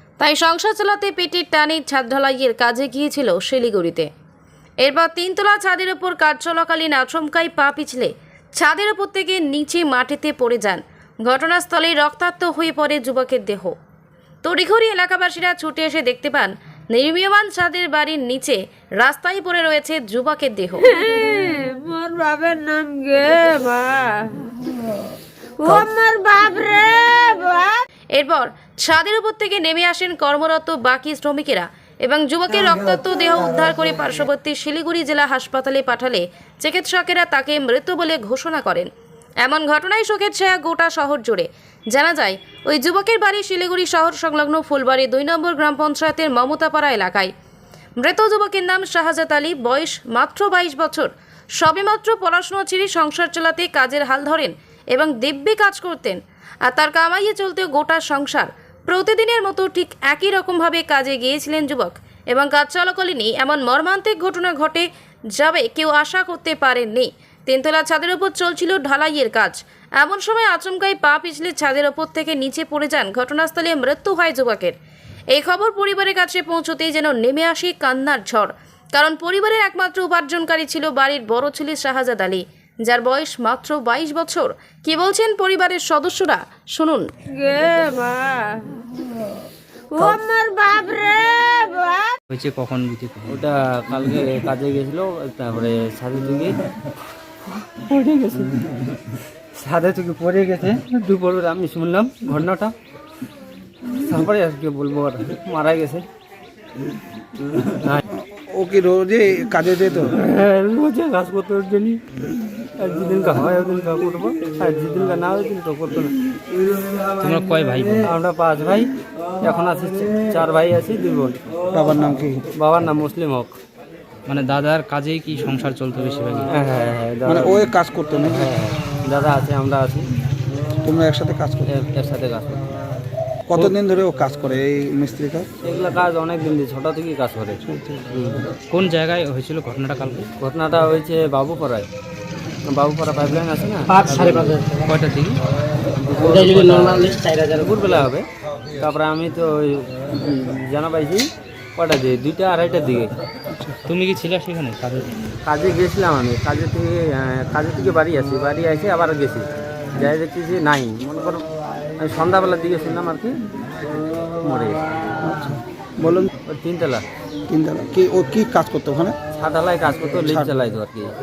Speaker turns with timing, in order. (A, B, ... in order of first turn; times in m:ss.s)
0:00.2-0:04.1 A
0:04.8-0:13.7 A
0:14.4-0:20.9 A
0:20.9-0:24.5 B
0:25.6-0:27.8 B
0:28.2-0:38.9 A
0:39.4-0:47.3 A
0:48.0-1:14.8 A
1:15.3-1:27.1 A
1:27.3-1:28.8 B
1:29.9-1:32.2 B
1:32.3-1:33.4 C
1:33.3-1:36.5 D
1:37.5-1:38.6 D
1:39.6-1:42.7 D
1:43.9-1:46.0 D
1:48.1-1:50.1 E
1:50.1-1:52.0 D
1:52.8-1:56.1 D
1:57.2-1:58.0 C
1:58.0-1:58.9 D
1:59.4-2:01.4 D
2:01.7-2:02.5 E
2:02.5-2:03.6 D
2:04.3-2:06.5 C
2:06.5-2:07.6 D
2:07.2-2:08.5 E
2:08.2-2:10.0 D
2:10.8-2:11.7 E
2:11.7-2:12.7 D
2:13.5-2:15.5 E
2:15.6-2:17.6 D
2:17.6-2:18.1 E
2:18.1-2:18.4 D
2:18.7-2:20.3 C
2:20.4-2:21.9 D
2:22.6-2:24.6 D
2:24.0-2:24.7 B
2:24.8-2:25.4 C
2:25.9-2:28.2 D
2:26.2-2:27.7 B
2:28.8-2:33.1 D
2:33.5-2:33.8 E
2:33.9-2:35.2 C
2:35.4-2:41.4 D
2:42.0-2:43.4 D
2:44.4-2:44.8 D
2:45.2-2:46.3 E
2:46.5-2:47.0 D
2:47.5-2:49.2 E
2:49.3-2:51.1 D
2:50.2-2:50.5 E